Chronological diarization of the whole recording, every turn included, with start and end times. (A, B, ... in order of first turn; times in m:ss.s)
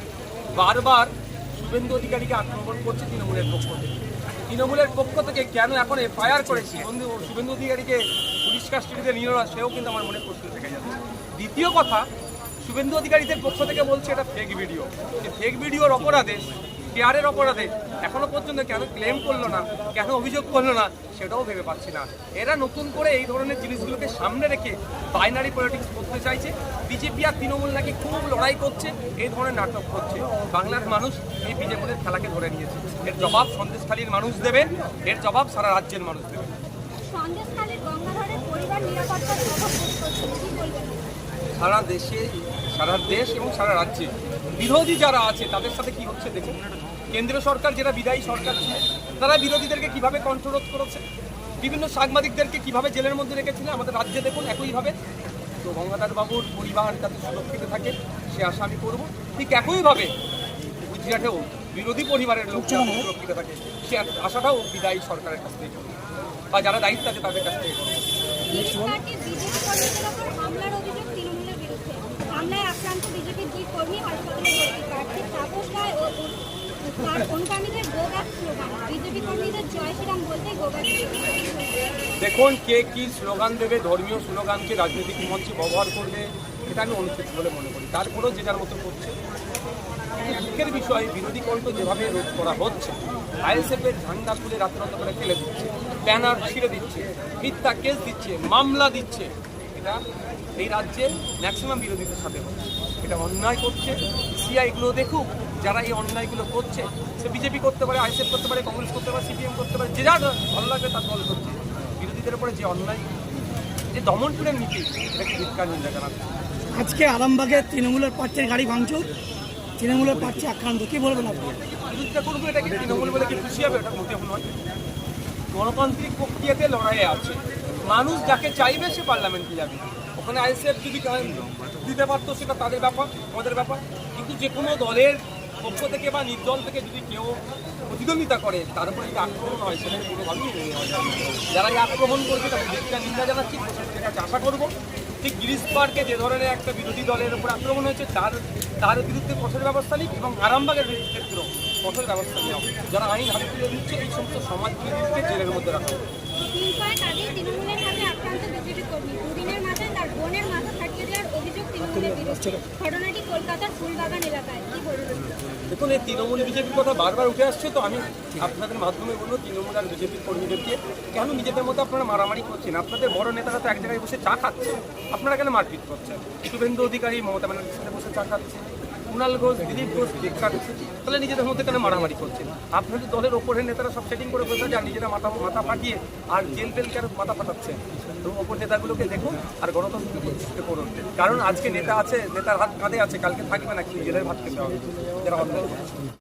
0:00.6-0:04.0 A
0:04.5-0:12.1 A
0:12.6-0:36.6 A
0:37.0-0:41.1 B
0:41.6-0:46.6 A
0:47.1-0:51.0 A
0:51.6-0:55.0 A
0:55.6-1:00.1 A
1:00.8-1:06.0 A
1:02.6-1:03.0 C
1:06.5-1:08.0 A
1:08.4-1:22.0 B
1:22.2-1:29.2 A
1:30.2-1:40.0 A
1:40.6-1:53.1 A
1:53.9-1:56.3 A
1:56.7-1:59.1 C
1:59.8-2:01.6 C
2:01.7-2:04.5 A
2:05.5-2:36.0 A
2:36.5-2:45.3 B
2:45.7-3:15.9 A